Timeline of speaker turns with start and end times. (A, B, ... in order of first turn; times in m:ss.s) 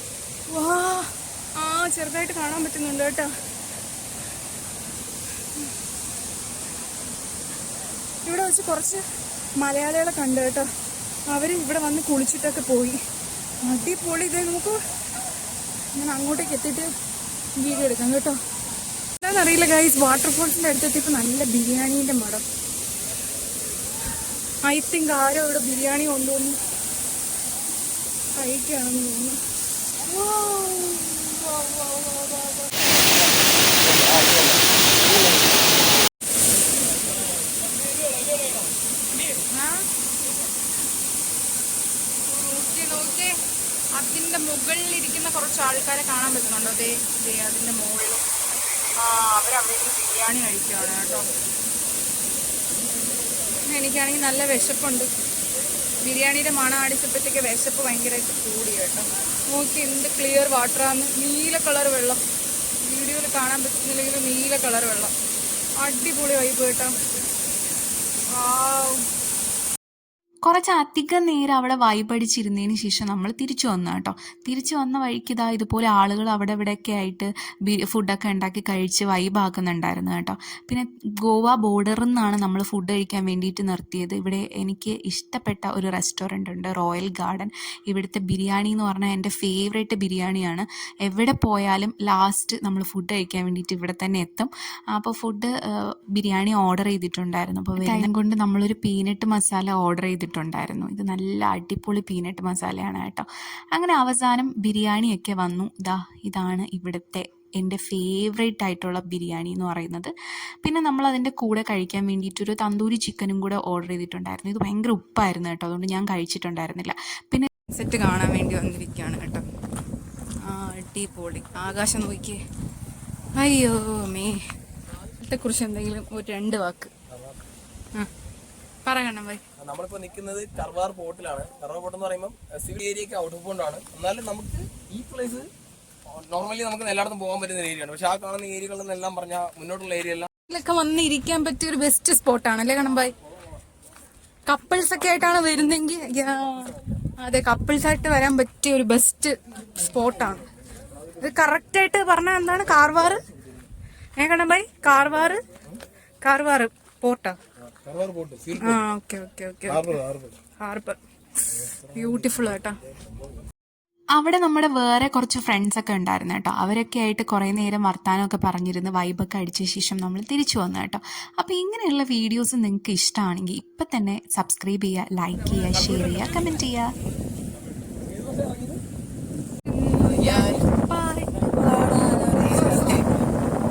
0:00.5-0:03.3 A
0:08.2-0:09.0 A
0:09.6-0:10.7 A
0:11.3-0:13.0 A
0:13.6-0:14.8 A
0:15.9-0:16.9 A
0:17.6-0:18.4 A
0:19.2-0:22.4 A
0:24.6-0:26.6 A
0:28.4-0:29.4 A
0:30.1-0:31.3 A
0:34.0-0:34.6 B
0:38.1-0:38.6 B
0:39.5-0:39.8 A
0:42.3-0:43.4 A
0:43.9-0:48.2 A
0:48.9-0:51.3 A
0:53.6-0:55.1 A
0:56.0-1:02.2 A
1:02.8-1:05.1 A
1:05.8-1:06.9 A
1:08.3-1:09.0 A
1:10.4-1:50.1 C
1:50.6-1:57.5 C
1:57.7-1:59.4 A
2:00.4-2:02.4 A
2:03.4-2:04.4 A
2:05.2-2:06.9 A
2:07.1-2:07.4 B
2:08.8-2:09.4 A
2:09.6-2:15.5 B
2:16.1-2:20.3 B
2:20.5-2:23.1 A
2:24.4-2:30.5 A
2:31.2-2:33.2 A
2:34.2-2:35.4 A
2:36.2-2:37.4 A
2:37.7-2:38.8 B
2:38.6-2:40.0 A
2:39.7-2:40.3 B
2:40.6-2:42.8 A
2:41.7-2:42.0 B
2:44.2-2:56.9 C
2:58.0-2:58.8 B
2:59.7-3:03.1 A
3:00.0-3:00.6 B